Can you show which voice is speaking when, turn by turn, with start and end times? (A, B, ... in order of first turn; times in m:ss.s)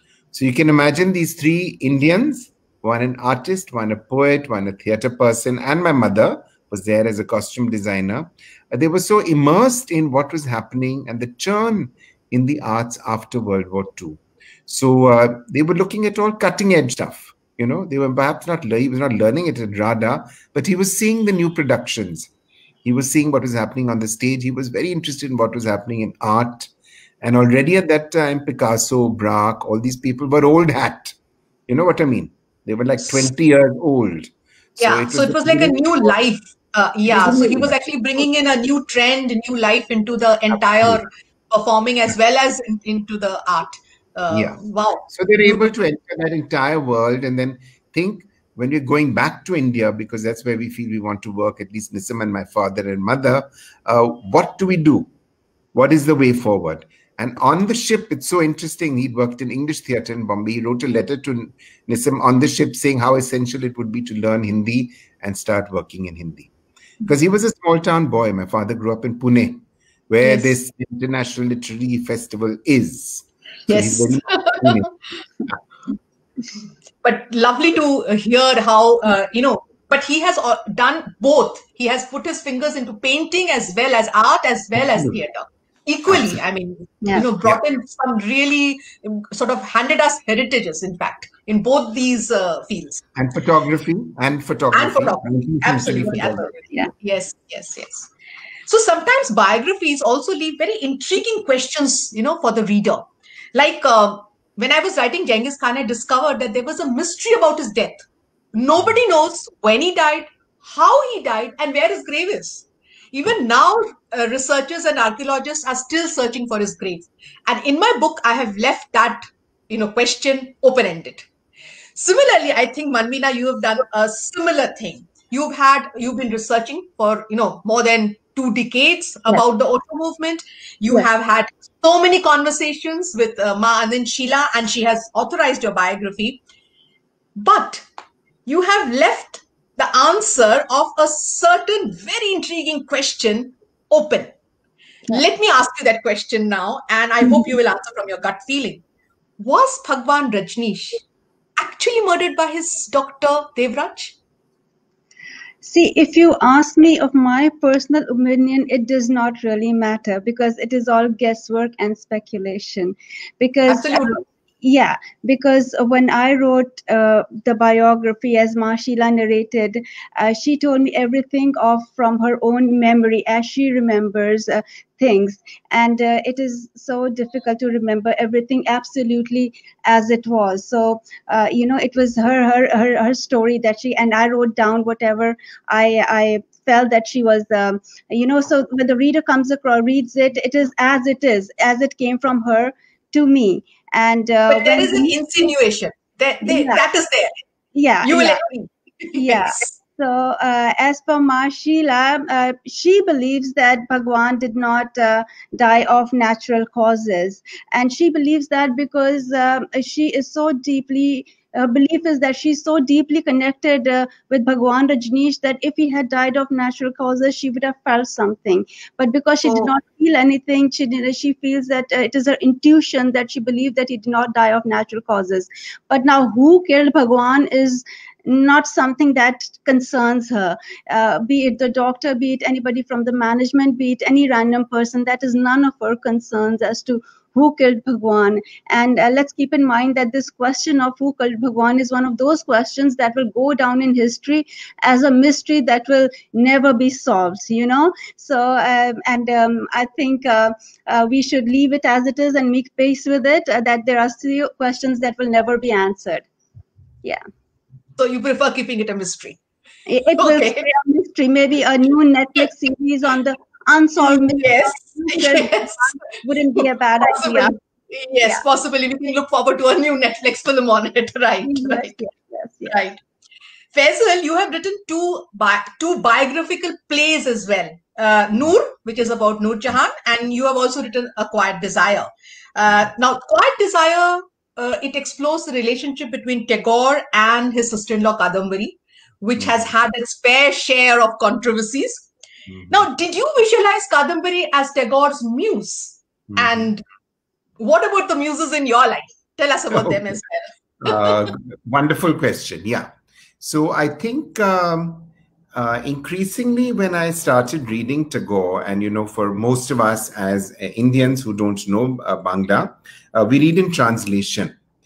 0:00.3-0:22.3 A
0:22.8-0:26.7 A
0:27.2-0:31.2 A
0:31.7-0:36.1 A
0:34.8-0:45.6 B
0:37.1-0:37.9 A
0:40.5-0:41.0 A
0:44.3-0:55.1 A
0:55.7-1:06.5 A
1:07.0-1:14.9 A
1:10.2-1:10.5 B
1:13.7-1:14.8 B
1:17.0-1:33.0 B
1:26.1-1:26.4 A
1:33.2-1:36.5 A
1:34.7-1:38.1 B
1:38.7-1:48.0 B
1:48.5-2:01.3 B
2:02.0-2:16.4 B
2:17.4-2:17.8 B
2:18.4-2:24.3 B
2:25.1-2:28.8 B
2:27.2-2:27.5 C
2:29.4-2:31.0 B
2:31.6-2:34.2 B
2:35.6-3:15.3 C
2:43.7-2:44.2 B
3:14.5-3:17.3 B
3:16.4-3:16.8 C
3:17.7-3:18.4 C
3:18.0-3:19.7 B
3:19.1-4:16.2 C
4:18.0-4:19.4 B
4:19.9-4:27.6 C
4:20.2-4:20.7 B
4:24.0-4:26.0 B
4:26.6-4:31.9 B
4:31.4-4:32.7 C
4:32.7-4:33.0 B
4:33.7-4:52.1 B
4:49.4-4:49.7 A
4:52.5-4:52.9 A
4:52.7-4:56.8 B
4:56.3-4:56.7 A
4:57.6-5:01.3 B
4:59.7-5:00.2 A
5:00.8-5:14.6 A